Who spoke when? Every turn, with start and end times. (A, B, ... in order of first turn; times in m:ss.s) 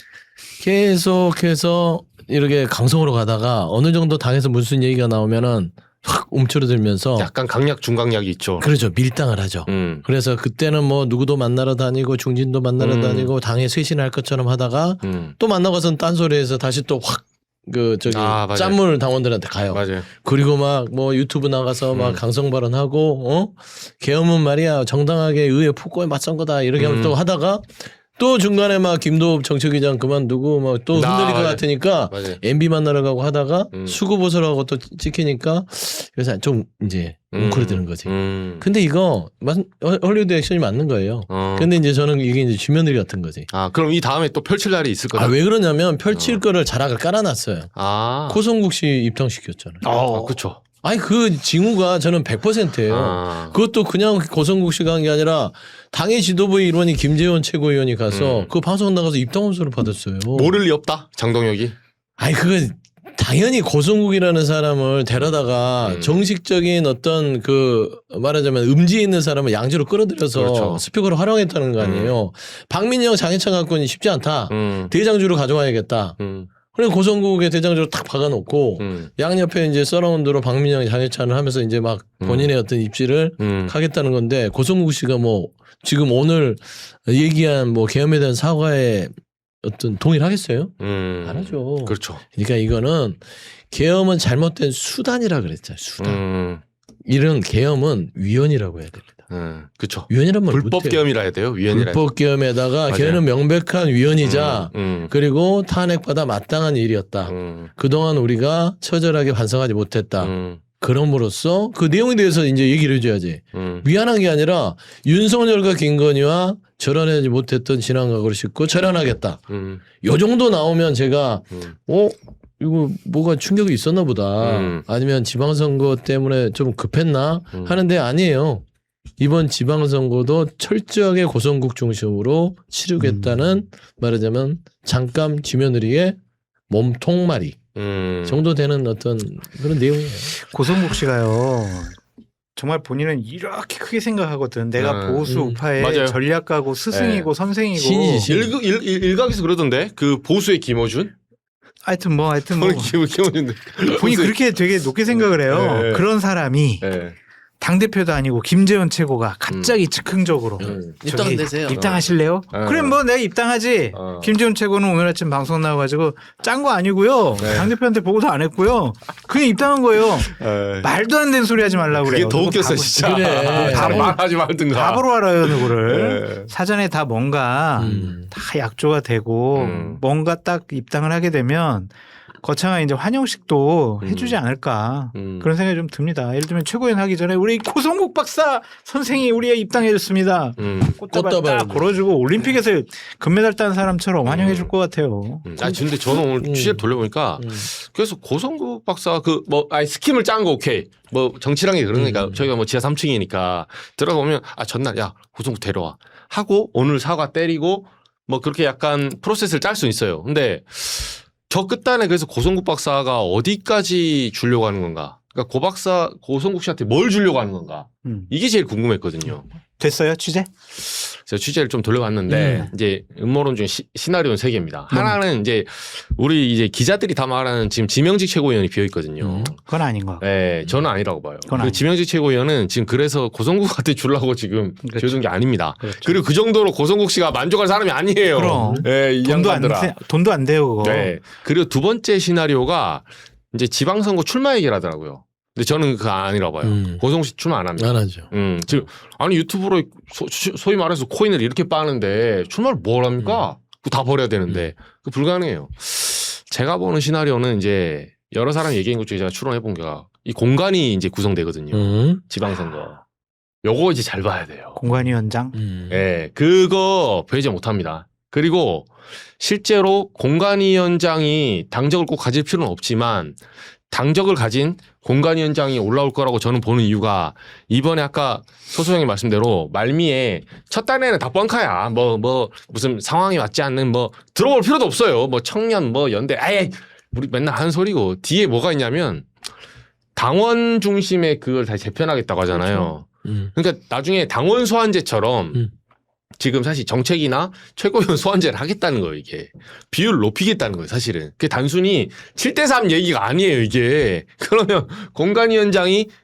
0:00.6-0:07.3 A
0:07.2-0:08.7 B
0:08.6-0:43.5 A
0:09.7-0:10.1 B
0:12.8-0:13.3 B
0:15.0-0:15.4 B
0:18.1-0:18.8 B
0:19.7-0:20.1 B
0:21.9-0:22.2 B
0:26.8-0:27.2 B
0:30.9-0:32.4 B
0:33.7-0:34.0 B
0:37.3-0:38.6 B
0:41.3-0:41.7 B
0:43.5-0:45.4 B
0:45.2-0:47.7 A
0:46.1-0:46.4 B
0:47.8-0:48.4 B
0:48.3-0:49.8 A
0:49.8-0:50.4 C
0:50.1-0:50.6 B
0:50.8-1:00.6 A
0:52.9-0:53.6 B
0:58.1-0:58.5 B
1:00.3-1:01.8 B
1:02.2-1:16.2 A
1:05.8-1:06.2 B
1:10.3-1:10.8 B
1:11.8-1:12.2 B
1:14.5-1:14.9 B
1:16.2-1:16.5 B
1:16.7-1:29.1 A
1:18.8-1:19.1 B
1:22.2-1:22.5 B
1:23.4-1:23.8 B
1:29.6-1:30.7 A
1:30.8-1:32.2 B
1:31.2-1:36.2 A
1:36.0-1:36.6 B
1:37.1-1:39.2 A
1:39.3-1:42.0 B
1:40.1-1:41.0 A
1:41.7-1:59.4 A
1:42.9-1:43.2 B
1:44.2-1:45.1 B
1:47.3-1:47.7 B
1:50.2-1:50.6 B
1:53.5-1:53.9 B
1:59.5-1:59.8 B
2:00.0-2:08.6 A
2:04.4-2:04.8 B
2:07.5-2:07.8 B
2:09.2-2:16.2 A
2:13.0-2:13.6 C
2:16.7-2:17.6 A
2:17.8-2:18.5 B
2:18.3-2:20.4 A
2:20.4-2:22.0 C
2:22.6-2:28.3 C
2:24.8-2:26.2 B
2:25.2-2:25.6 A
2:26.9-2:27.3 B
2:27.8-2:28.5 A
2:28.3-2:31.1 B
2:31.8-2:33.0 C
2:32.6-2:34.4 B
2:33.9-2:36.8 C
2:35.1-2:36.1 B
2:36.8-2:37.2 B
2:37.6-3:15.5 C
2:39.5-2:39.8 B
2:40.6-2:42.0 A
2:40.6-2:41.0 B
2:41.8-2:43.0 B
2:43.9-2:44.4 B
2:47.4-2:47.7 B
2:50.2-2:50.9 B
2:52.0-2:56.5 B
2:53.0-2:54.2 A
2:57.8-2:58.3 A
2:59.6-3:00.0 B
3:04.0-3:04.4 B
3:05.1-3:05.5 B
3:10.6-3:11.0 B
3:11.1-3:12.0 A
3:14.2-3:14.7 B
3:15.5-3:39.5 B
3:15.6-3:16.8 A
3:17.4-3:17.7 A
3:21.9-3:22.5 A
3:38.0-3:38.3 C
3:39.8-3:40.5 C
3:40.8-3:49.6 B
3:42.3-3:42.7 A
3:44.9-3:45.2 C
3:49.2-3:49.5 A
3:49.7-3:50.2 C
3:50.2-4:00.0 B
3:51.4-3:51.8 C
3:54.8-3:55.2 C
3:55.8-3:56.2 C
3:58.3-4:01.2 C
3:58.4-3:58.9 A
4:00.8-4:23.0 B
4:06.6-4:07.0 A
4:07.8-4:08.3 A
4:13.2-4:13.5 A
4:21.7-4:22.2 A
4:23.6-4:24.8 B
4:24.8-4:25.6 C
4:25.5-4:26.0 A
4:25.9-4:33.4 B
4:33.9-4:49.3 B
4:50.2-4:55.7 B
4:52.5-4:53.5 A
4:56.4-5:06.1 B